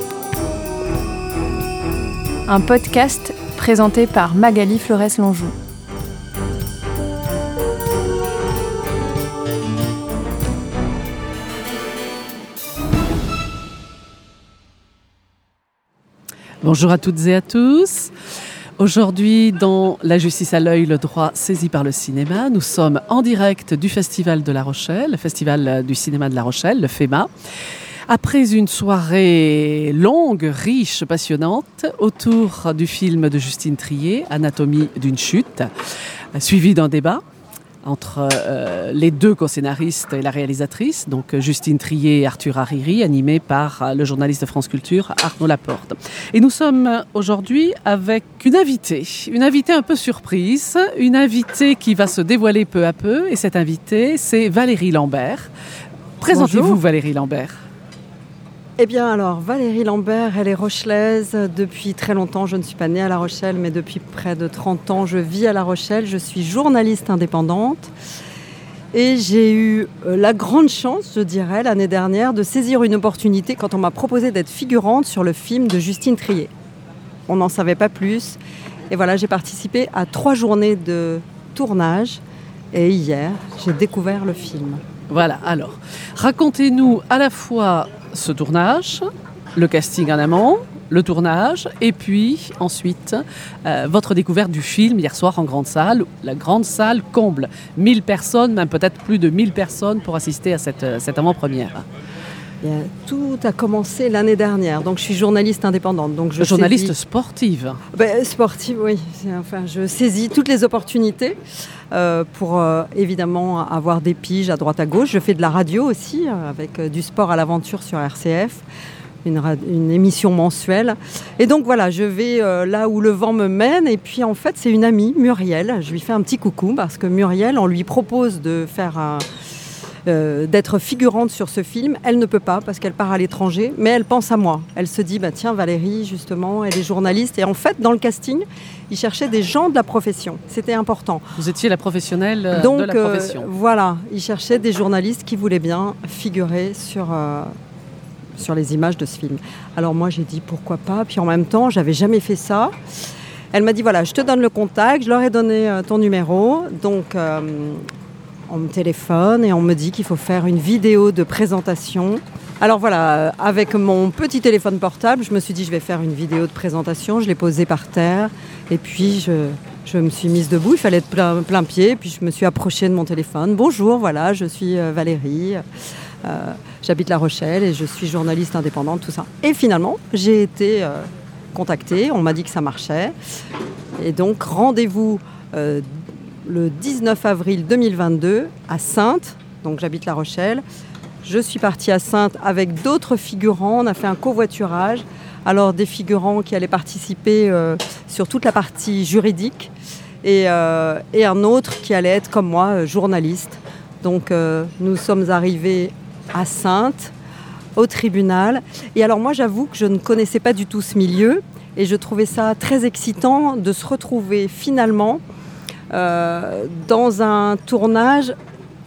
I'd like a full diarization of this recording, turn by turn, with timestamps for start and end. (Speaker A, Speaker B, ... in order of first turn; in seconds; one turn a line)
Speaker A: 2.5-5.5
Speaker B: 16.6-18.1
Speaker B: 18.8-27.3
Speaker B: 28.1-35.7
Speaker B: 36.3-37.2
Speaker B: 37.8-55.5
Speaker B: 56.2-57.6
Speaker C: 56.3-56.8
Speaker C: 58.8-67.9
Speaker C: 68.9-76.5
Speaker C: 77.3-82.2
Speaker C: 82.7-84.8
Speaker B: 85.1-101.8
Speaker C: 102.6-107.0
Speaker B: 106.4-107.8
Speaker C: 107.9-111.4
Speaker C: 111.9-118.6
Speaker C: 119.2-129.2
Speaker C: 130.1-141.2
Speaker B: 141.4-143.5
Speaker C: 142.5-147.5
Speaker C: 148.4-152.7
Speaker C: 153.5-157.8
Speaker C: 158.5-175.6
Speaker C: 176.2-183.1
Speaker C: 184.0-190.6
Speaker C: 191.2-199.7
Speaker C: 200.2-207.1
Speaker C: 207.8-215.2
Speaker C: 215.9-218.3